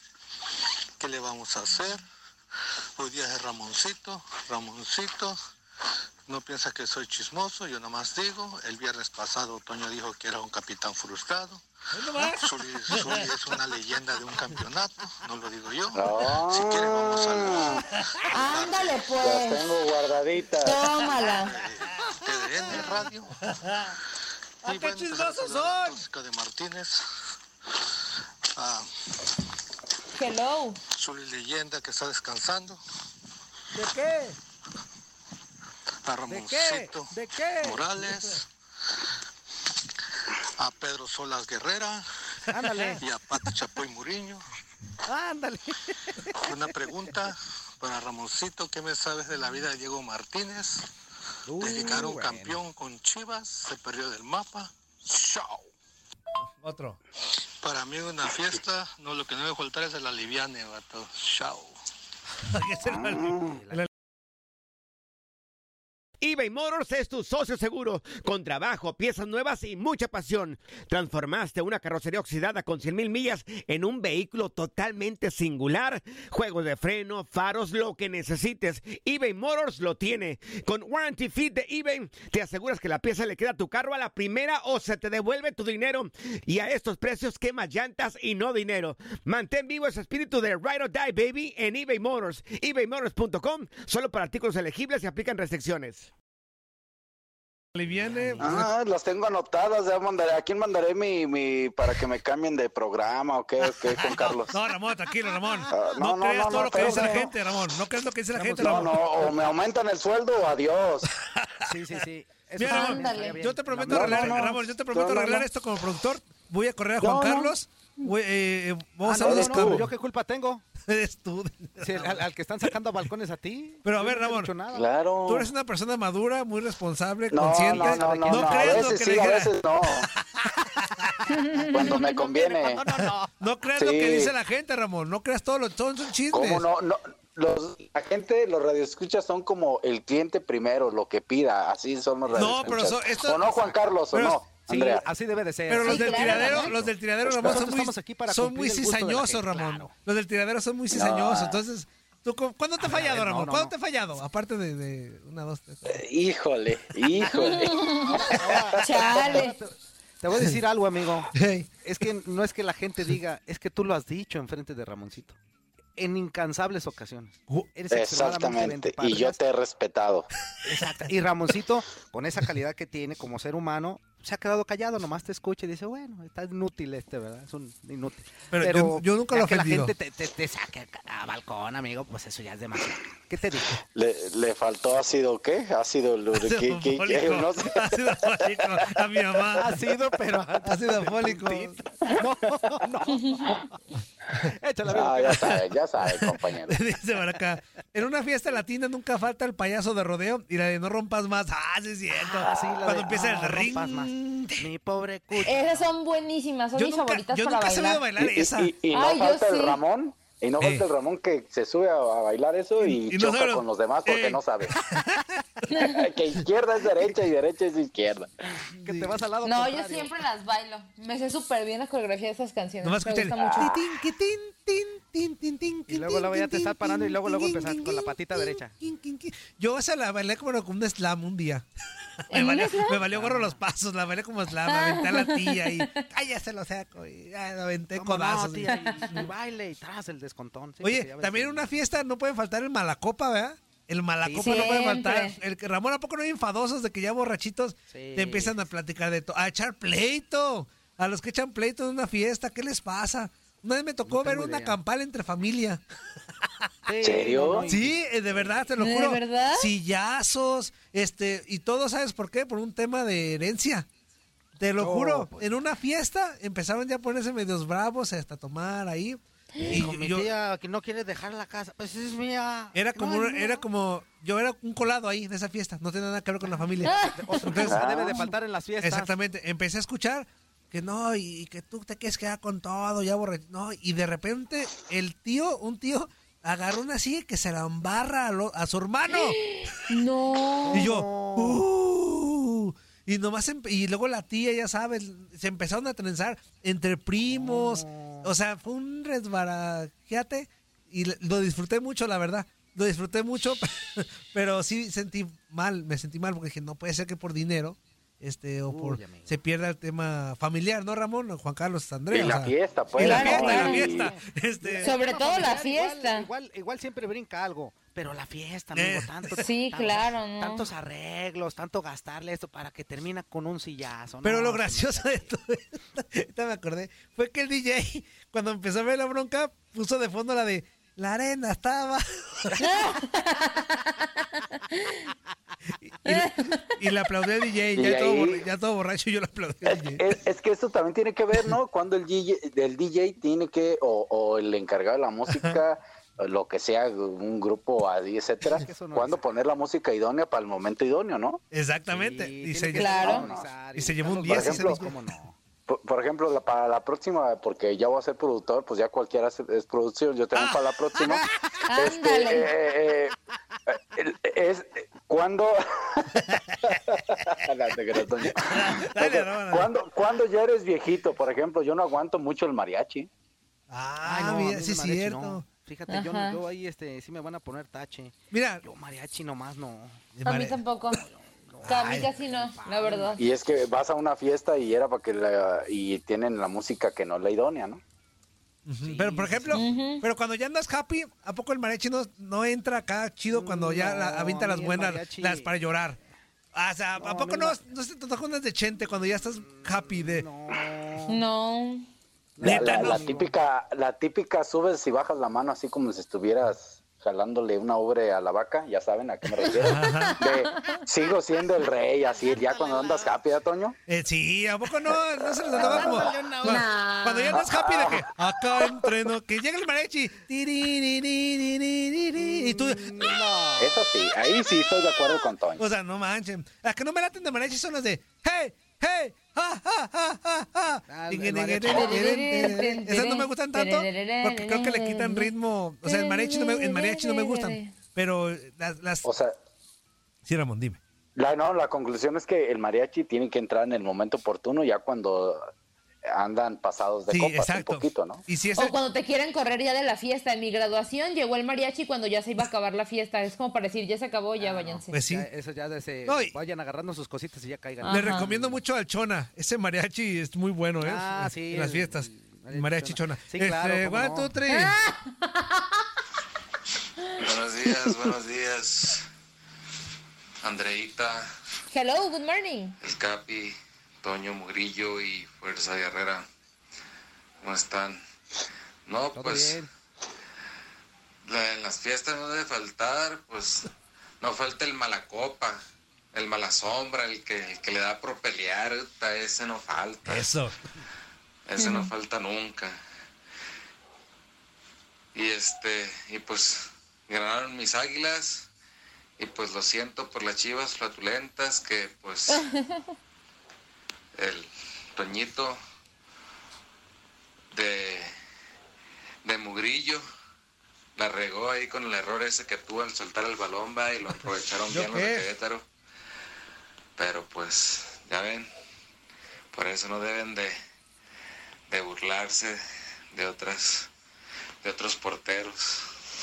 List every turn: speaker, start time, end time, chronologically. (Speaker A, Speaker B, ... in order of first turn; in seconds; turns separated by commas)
Speaker A: 1.0-2.0, Speaker A: 3.0-5.4, Speaker A: 6.3-11.6, Speaker B: 11.9-13.3, Speaker A: 12.2-19.1, Speaker C: 15.9-17.8, Speaker B: 17.8-18.2, Speaker D: 18.3-19.6, Speaker C: 19.2-20.9, Speaker D: 20.6-21.5, Speaker A: 20.9-23.4, Speaker B: 22.5-22.9, Speaker B: 23.4-23.9, Speaker B: 24.6-26.0, Speaker A: 24.6-27.0, Speaker A: 28.6-28.9, Speaker D: 30.1-30.8, Speaker A: 30.9-32.8, Speaker B: 33.7-34.4, Speaker A: 36.0-38.5, Speaker E: 36.3-37.8, Speaker A: 40.3-42.0, Speaker E: 42.5-43.0, Speaker B: 42.5-43.0, Speaker A: 43.0-44.4, Speaker B: 45.1-45.8, Speaker A: 46.4-50.9, Speaker E: 51.5-52.6, Speaker A: 51.6-55.5, Speaker B: 56.6-57.0, Speaker A: 57.6-61.7, Speaker B: 62.5-63.9, Speaker C: 62.9-63.5, Speaker E: 63.4-63.9, Speaker F: 66.2-96.1, Speaker B: 97.7-98.7, Speaker E: 97.9-98.6, Speaker C: 98.4-104.5, Speaker B: 104.5-109.0, Speaker C: 105.7-107.3, Speaker E: 106.5-107.3, Speaker E: 108.3-109.0, Speaker C: 108.6-111.1, Speaker B: 111.2-111.7, Speaker E: 111.6-114.5, Speaker B: 112.6-119.9, Speaker D: 112.6-113.4, Speaker C: 113.9-115.5, Speaker C: 117.0-117.5, Speaker E: 119.0-120.6, Speaker C: 119.2-119.8, Speaker B: 120.8-122.3, Speaker E: 121.8-124.9, Speaker B: 123.8-124.5, Speaker C: 124.7-125.5, Speaker B: 125.3-129.5, Speaker C: 127.3-130.1, Speaker E: 127.5-129.0, Speaker B: 130.8-131.1, Speaker D: 131.3-132.3, Speaker C: 131.6-132.8, Speaker E: 132.3-133.4, Speaker B: 133.0-136.6, Speaker C: 133.7-134.3, Speaker C: 136.3-145.1, Speaker E: 142.3-142.8, Speaker B: 142.3-144.4, Speaker E: 144.7-149.9, Speaker B: 145.7-156.0, Speaker D: 145.8-146.7, Speaker C: 150.9-151.6, Speaker E: 152.8-153.7, Speaker C: 155.9-158.4, Speaker B: 157.0-157.6, Speaker D: 157.3-159.6, Speaker E: 158.0-165.4, Speaker B: 161.3-161.7, Speaker E: 166.0-169.4, Speaker C: 167.9-170.3, Speaker E: 170.7-183.8, Speaker B: 178.5-179.9, Speaker C: 183.9-187.9, Speaker B: 186.4-189.8, Speaker E: 189.5-193.6, Speaker B: 190.6-191.8, Speaker D: 193.1-193.5, Speaker E: 194.3-195.6, Speaker C: 194.9-196.8, Speaker B: 195.5-204.7, Speaker E: 202.2-205.9, Speaker C: 202.5-202.8, Speaker D: 205.4-208.1, Speaker B: 206.8-208.7, Speaker C: 208.2-214.8, Speaker D: 208.9-209.8, Speaker B: 210.6-210.8, Speaker B: 212.8-215.7, Speaker D: 215.7-216.1, Speaker C: 215.8-218.3, Speaker E: 218.8-220.1, Speaker B: 218.8-219.2, Speaker D: 219.4-223.8, Speaker B: 222.8-231.7, Speaker C: 223.4-223.6, Speaker E: 225.9-228.7, Speaker B: 232.2-239.3, Speaker D: 232.3-233.0, Speaker E: 233.1-233.6, Speaker D: 234.6-236.0, Speaker E: 237.9-241.8, Speaker D: 238.7-239.2, Speaker B: 240.8-255.8, Speaker E: 244.2-244.8, Speaker D: 244.4-245.4, Speaker E: 247.9-248.6, Speaker E: 254.0-254.8, Speaker E: 256.9-258.6, Speaker C: 257.0-257.7, Speaker B: 257.6-263.9, Speaker D: 258.8-259.7, Speaker B: 264.6-270.3, Speaker E: 264.8-265.5, Speaker E: 269.7-273.4, Speaker B: 272.7-277.8, Speaker E: 276.5-279.1, Speaker D: 276.8-277.6, Speaker C: 277.7-278.1, Speaker B: 278.8-289.4, Speaker D: 289.1-290.9, Speaker E: 290.7-291.6, Speaker B: 290.7-314.9, Speaker E: 297.3-298.3, Speaker E: 308.6-309.4, Speaker C: 312.1-314.1, Speaker D: 313.0-314.0, Speaker E: 313.0-325.3, Speaker D: 314.8-316.3, Speaker B: 318.7-319.4, Speaker D: 319.4-320.7, Speaker B: 324.2-332.6, Speaker D: 332.6-334.1, Speaker D: 334.7-335.0, Speaker B: 335.8-340.0, Speaker D: 336.0-336.8, Speaker C: 337.7-338.4, Speaker C: 339.7-351.4, Speaker B: 345.3-345.6, Speaker E: 348.6-349.2, Speaker B: 351.5-353.2, Speaker E: 351.9-355.4, Speaker D: 352.7-353.3, Speaker C: 353.0-353.5, Speaker B: 353.8-354.9, Speaker C: 354.2-354.8, Speaker C: 355.7-363.1, Speaker B: 360.3-361.3, Speaker D: 361.7-362.5, Speaker C: 363.9-373.1, Speaker B: 366.1-366.9, Speaker B: 368.3-369.7, Speaker B: 373.7-375.4, Speaker E: 374.0-380.1, Speaker D: 375.9-376.4, Speaker B: 378.3-378.6, Speaker B: 380.1-380.6, Speaker D: 380.2-381.0, Speaker E: 381.0-383.2, Speaker B: 381.6-382.1, Speaker D: 381.6-383.2, Speaker C: 383.2-387.8, Speaker B: 388.6-396.0, Speaker E: 388.8-389.6, Speaker D: 389.5-390.0, Speaker E: 393.3-395.5, Speaker B: 396.5-400.3, Speaker E: 397.0-397.6, Speaker E: 399.4-401.2, Speaker D: 401.1-401.9, Speaker E: 402.4-403.3, Speaker C: 402.4-413.8, Speaker B: 402.4-403.1, Speaker B: 409.6-410.2, Speaker D: 409.8-410.8, Speaker E: 412.6-413.0, Speaker B: 413.9-423.0, Speaker C: 415.2-416.3, Speaker D: 415.8-417.4, Speaker C: 417.3-418.7, Speaker E: 422.2-423.8, Speaker C: 423.6-425.6, Speaker B: 425.6-439.1, Speaker E: 430.9-432.2, Speaker D: 431.7-435.3, Speaker D: 435.8-437.7, Speaker C: 439.0-439.3, Speaker B: 440.2-440.8, Speaker C: 441.1-445.5, Speaker C: 446.1-448.2, Speaker B: 447.1-448.8, Speaker D: 448.5-455.0, Speaker E: 454.4-458.6, Speaker B: 454.9-455.3, Speaker B: 456.1-456.4, Speaker D: 457.8-458.3, Speaker B: 457.9-464.8, Speaker E: 460.8-464.3, Speaker D: 464.5-465.7, Speaker G: 467.2-469.1, Speaker G: 470.4-471.3, Speaker D: 471.7-472.8, Speaker G: 472.8-476.3, Speaker G: 477.4-478.0, Speaker G: 478.9-479.6, Speaker E: 479.1-479.7, Speaker G: 481.3-483.7, Speaker G: 484.2-485.6, Speaker G: 486.1-490.3, Speaker B: 490.1-490.5, Speaker G: 491.4-492.8, Speaker D: 491.6-491.9, Speaker G: 495.1-498.5, Speaker G: 499.2-502.4, Speaker D: 502.3-502.9, Speaker G: 504.1-505.6, Speaker G: 507.5-508.1, Speaker G: 509.2-510.0, Speaker G: 510.9-515.6, Speaker B: 514.7-515.2, Speaker G: 517.0-518.5, Speaker G: 519.5-520.6, Speaker G: 521.7-522.6, Speaker G: 523.1-523.9, Speaker G: 524.6-525.8